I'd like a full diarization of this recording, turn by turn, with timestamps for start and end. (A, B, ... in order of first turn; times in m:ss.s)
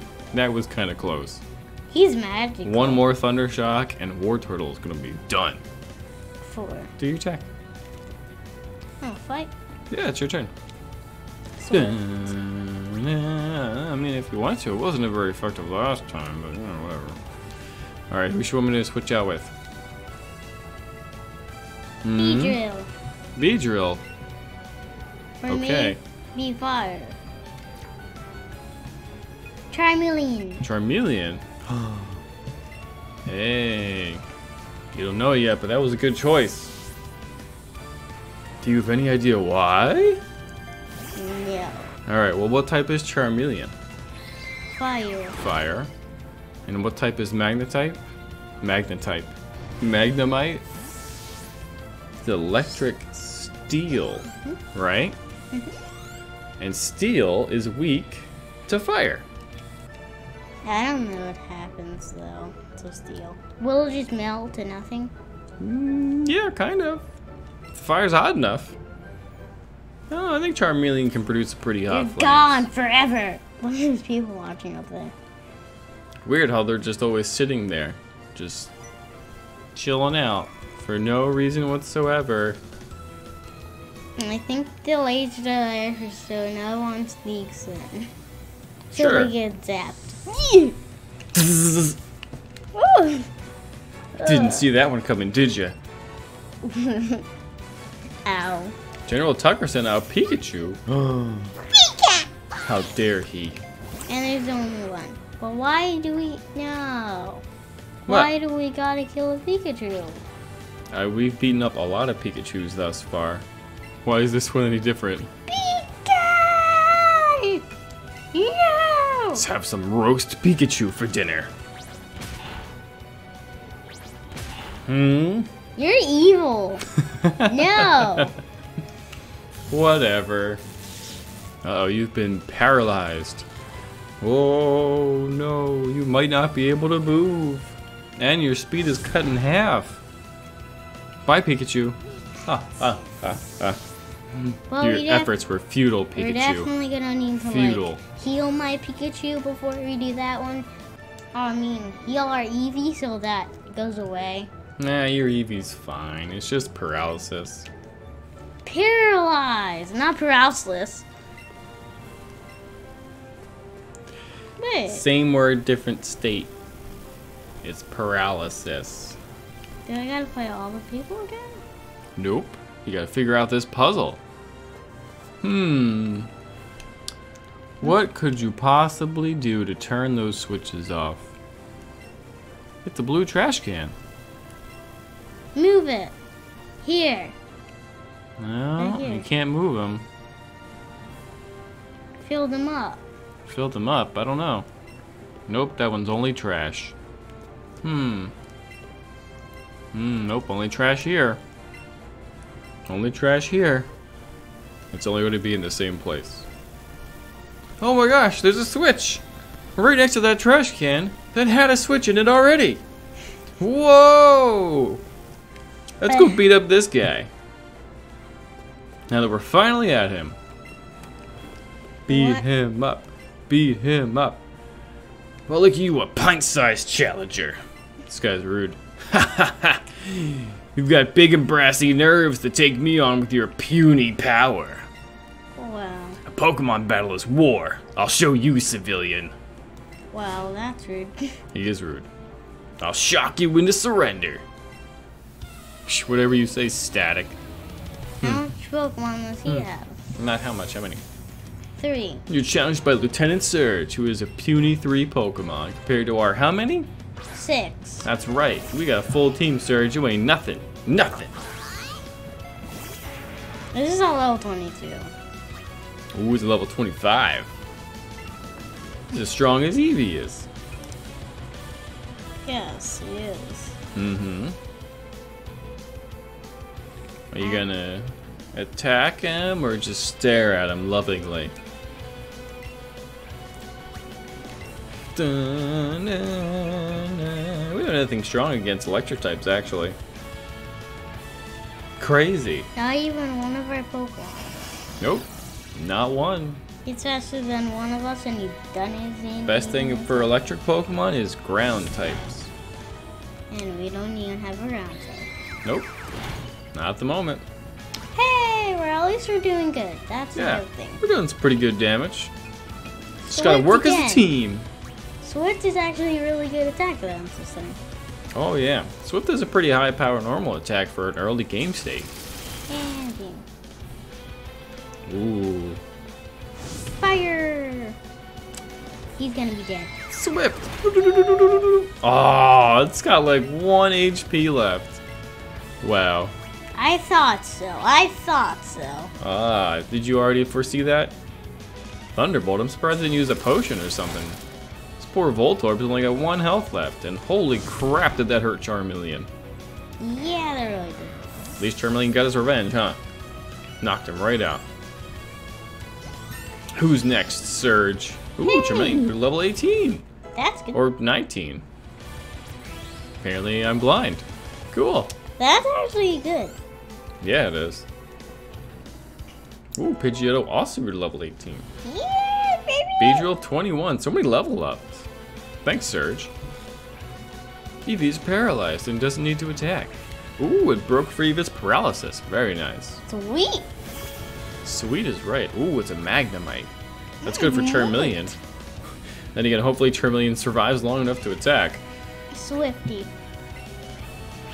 0:00.3-0:01.4 A
0:01.9-0:03.0 B
0:02.6-0:05.6 A
0:06.4-0:06.9 B
0:07.0-0:07.5 A
0:09.0-0:09.5 B
0:09.9-0:10.5 A
0:11.6-0:12.0 B
0:11.7-0:17.2 A
0:18.1-0:19.5 A
0:22.0-0:22.6 A
0:22.2-0:22.9 B
0:23.4-0:24.0 A
0:25.4-0:27.2 B
0:25.5-0:26.0 A
0:29.7-0:30.6 B
0:30.6-0:32.2 A
0:33.2-0:34.2 A
0:34.9-0:36.7 A
0:38.6-0:40.2 A
0:41.2-0:41.9 B
0:42.0-0:43.7 A
0:44.7-0:45.4 B
0:45.4-0:45.9 A
0:46.7-0:48.0 A
0:48.6-0:50.6 A
0:52.2-0:55.2 A
0:56.6-0:59.2 A
1:00.6-1:05.1 B
1:05.6-1:07.0 A
1:07.7-1:08.8 A
1:10.1-1:12.6 A
1:11.9-1:15.1 B
1:16.2-1:18.7 A
1:19.7-1:22.6 A
1:24.2-1:28.1 B
1:28.9-1:29.3 A
1:28.9-1:30.8 B
1:31.3-1:32.0 A
1:32.7-1:33.3 B
1:34.2-1:34.7 B
1:34.2-1:35.8 A
1:36.6-1:37.2 B
1:38.2-1:38.7 B
1:39.1-1:41.5 A
1:41.7-1:42.3 B
1:42.6-1:43.6 A
1:44.1-1:47.4 B
1:48.1-1:50.2 B
1:50.9-1:53.4 A
1:54.0-1:55.3 A
1:55.5-1:57.6 B
1:58.3-1:59.4 B
1:59.3-2:01.5 A
2:04.8-2:05.5 A
2:05.8-2:06.8 B
2:07.0-2:08.3 A
2:07.4-2:08.3 B
2:09.7-2:10.6 A
2:11.6-2:13.4 A
2:14.2-2:20.0 A
2:21.2-2:23.8 A
2:24.3-2:26.7 A
2:24.7-2:25.3 B
2:26.2-2:30.7 B
2:27.4-2:28.0 A
2:31.3-2:34.5 B
2:34.8-2:37.7 A
2:38.6-2:41.0 B
2:44.6-2:45.0 B
2:44.9-2:46.5 A
2:47.6-2:49.2 A
2:49.8-2:51.6 B
2:52.2-2:54.2 A
2:55.4-2:56.3 A
2:57.8-3:01.3 A
3:02.8-3:03.9 A
3:05.5-3:06.1 B
3:06.8-3:07.3 B
3:08.4-3:10.0 A
3:08.8-3:09.3 B
3:12.2-3:13.0 B
3:13.5-3:14.7 A
3:15.5-3:16.9 A
3:17.8-3:18.3 A
3:19.9-3:21.4 A
3:22.9-3:23.9 A
3:24.9-3:26.4 A
3:27.8-3:29.2 A
3:29.8-3:32.8 A
3:33.6-3:35.0 A
3:36.0-3:37.3 A
3:36.1-3:36.4 B
3:39.1-3:40.4 A
3:42.1-3:42.4 B
3:42.1-3:44.4 A
3:45.5-3:54.8 A
3:55.5-3:56.2 B
3:56.2-3:59.3 A
4:00.1-4:01.3 B
4:01.5-4:02.1 A
4:02.8-4:04.4 A
4:05.9-4:07.4 A
4:08.2-4:10.0 B
4:09.5-4:11.0 A
4:11.8-4:12.2 B
4:12.3-4:16.9 A
4:17.3-4:18.0 B
4:18.0-4:21.3 A
4:23.7-4:25.1 B
4:26.1-4:27.5 A
4:29.1-4:30.5 A
4:32.4-4:33.8 B
4:33.9-4:34.6 A
4:37.3-4:41.5 A
4:45.1-4:50.0 A
4:52.0-4:52.7 A
4:52.7-4:54.6 B
4:55.0-4:56.6 A
4:56.8-5:00.4 B
4:59.4-5:02.5 A
5:03.5-5:05.3 B
5:06.7-5:07.4 A
5:08.1-5:11.0 B
5:10.4-5:12.3 A
5:13.2-5:14.6 A
5:13.3-5:14.3 B
5:15.2-5:17.8 B
5:18.3-5:22.1 A
5:22.7-5:23.4 B
5:25.1-5:25.8 A
5:27.0-5:28.0 B
5:29.2-5:29.9 B
5:30.1-5:35.0 A
5:35.8-5:36.3 A
5:36.7-5:39.1 B
5:39.2-5:41.1 A
5:42.2-5:44.4 A
5:45.0-5:49.3 A
5:50.0-5:51.2 B
5:51.6-5:53.0 A
5:53.8-5:54.6 A
5:56.7-6:00.0 A
5:58.4-5:59.1 B
6:00.3-6:00.8 B
6:00.7-6:01.6 A
6:03.2-6:05.1 A
6:05.4-6:06.5 B
6:07.2-6:07.9 A
6:09.8-6:11.6 A
6:11.8-6:13.2 B
6:13.0-6:15.0 A
6:15.6-6:16.3 A
6:17.8-6:23.0 A
6:23.1-6:23.6 B
6:24.6-6:26.7 A
6:27.2-6:28.2 B
6:27.2-6:28.4 A
6:29.3-6:31.8 A
6:32.3-6:33.1 B